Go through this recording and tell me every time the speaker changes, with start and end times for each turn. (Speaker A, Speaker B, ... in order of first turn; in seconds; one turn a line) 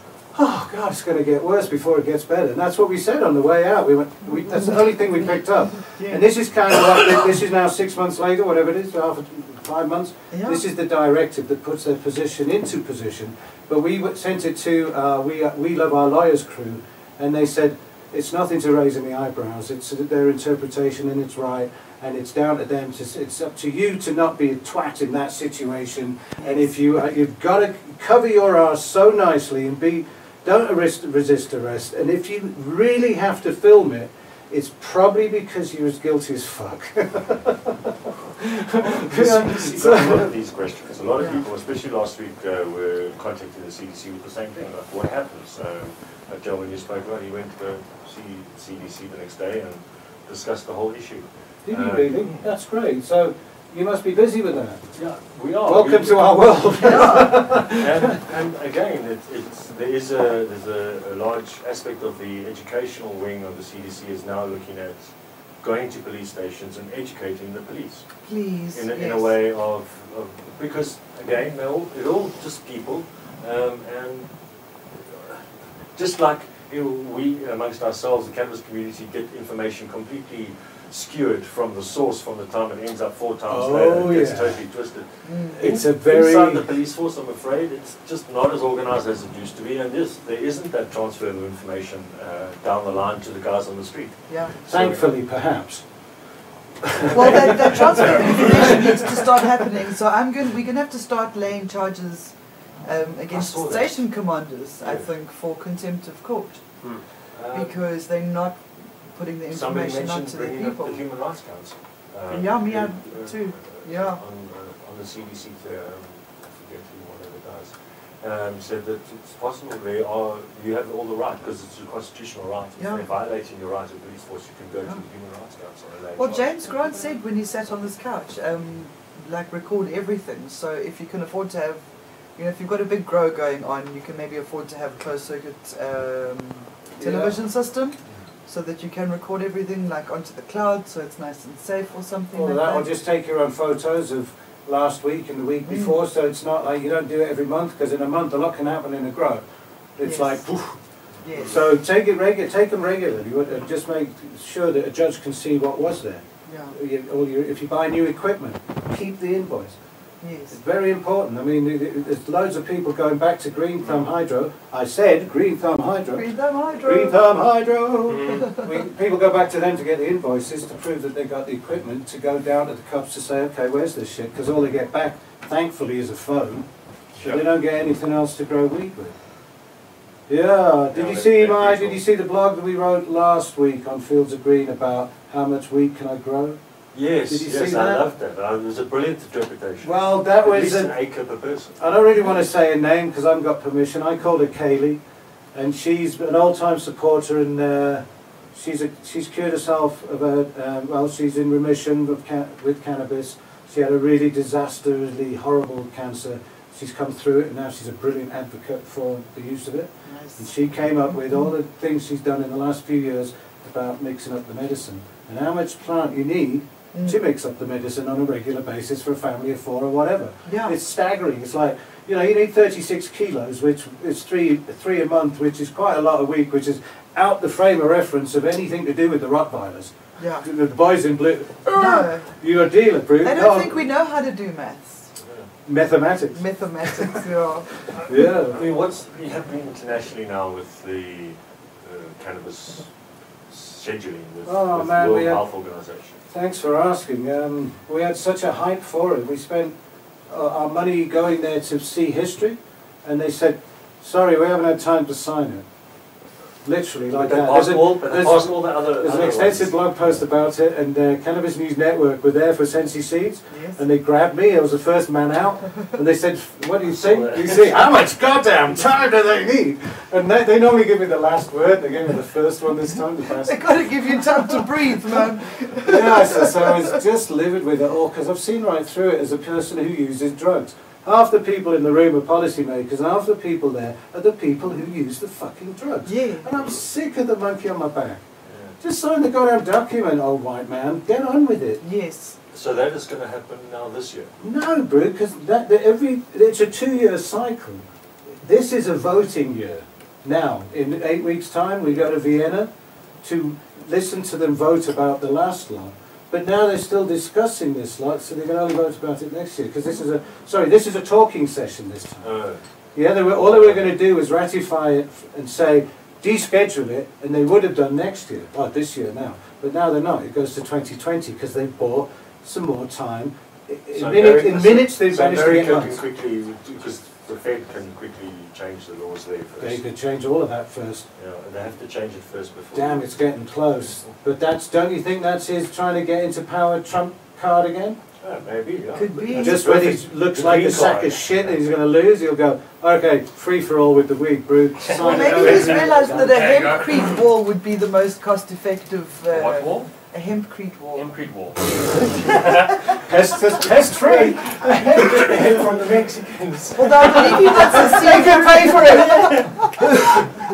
Speaker A: 0.3-40.3
Speaker B: 6.0-6.3
Speaker B: 10.3-10.6
Speaker C: 38.8-52.5
Speaker A: 51.7-54.8
Speaker C: 54.9-65.0
Speaker A: 55.6-58.2
Speaker B: 56.8-57.5
Speaker C: 65.6-68.1
Speaker B: 68.2-69.3
Speaker C: 68.7-74.3
Speaker C: 74.9-75.4
Speaker C: 76.0-95.1
Speaker A: 83.5-84.6
Speaker B: 85.2-85.6
Speaker A: 85.5-86.7
Speaker B: 94.3-94.6
Speaker A: 94.7-95.8
Speaker A: 96.9-99.2
Speaker C: 97.0-98.2
Speaker B: 97.1-102.3
Speaker B: 102.8-106.6
Speaker C: 103.3-104.0
Speaker C: 104.8-105.1
Speaker C: 107.3-107.8
Speaker B: 107.5-108.6
Speaker B: 109.1-111.0
Speaker C: 109.5-126.5
Speaker B: 112.3-114.2
Speaker B: 122.8-123.0
Speaker B: 126.2-131.8
Speaker B: 132.4-142.9
Speaker A: 137.0-137.4
Speaker A: 142.3-149.4
Speaker B: 145.7-146.0
Speaker A: 150.0-150.8
Speaker B: 150.0-150.4
Speaker B: 151.2-151.7
Speaker A: 151.4-159.8
Speaker B: 156.5-156.7
Speaker B: 160.2-160.6
Speaker A: 160.5-166.3
Speaker B: 166.1-167.2
Speaker A: 166.8-176.7
Speaker D: 168.1-168.5
Speaker C: 177.2-177.5
Speaker A: 177.2-179.2
Speaker A: 180.3-186.6
Speaker C: 180.9-182.0
Speaker C: 186.9-191.8
Speaker A: 187.3-188.0
Speaker A: 189.8-190.9
Speaker A: 191.8-195.0
Speaker A: 195.5-233.9
Speaker B: 210.1-210.4
Speaker B: 211.1-211.5
Speaker B: 216.9-217.2
Speaker B: 220.5-220.7
Speaker B: 230.2-230.5
Speaker B: 231.8-232.3
Speaker B: 233.2-235.1
Speaker A: 235.7-236.4
Speaker B: 236.3-237.8
Speaker C: 237.9-242.9
Speaker A: 238.0-238.6
Speaker C: 243.5-246.2
Speaker A: 244.5-245.4
Speaker A: 246.3-249.8
Speaker A: 250.3-255.7
Speaker A: 256.6-273.8
Speaker C: 257.1-260.2
Speaker B: 263.5-263.8
Speaker C: 266.9-267.9
Speaker B: 273.4-277.0
Speaker A: 275.8-288.2
Speaker B: 286.1-286.5
Speaker C: 288.4-288.8
Speaker A: 288.8-291.8
Speaker B: 291.8-292.4
Speaker C: 292.5-294.3
Speaker A: 294.4-297.8
Speaker A: 298.4-302.7
Speaker A: 303.2-312.3
Speaker C: 312.2-312.6
Speaker A: 312.9-326.0
Speaker C: 313.3-313.9
Speaker C: 323.9-329.8
Speaker A: 329.6-331.1
Speaker C: 331.2-333.1
Speaker A: 332.7-338.0
Speaker C: 338.2-341.5
Speaker B: 338.9-339.7
Speaker A: 339.1-346.7
Speaker C: 344.9-345.9
Speaker B: 344.9-351.1
Speaker D: 345.4-347.0
Speaker D: 349.3-349.9
Speaker D: 350.9-352.7
Speaker A: 352.9-355.6
Speaker C: 353.7-360.0
Speaker B: 356.7-359.7
Speaker A: 357.7-359.4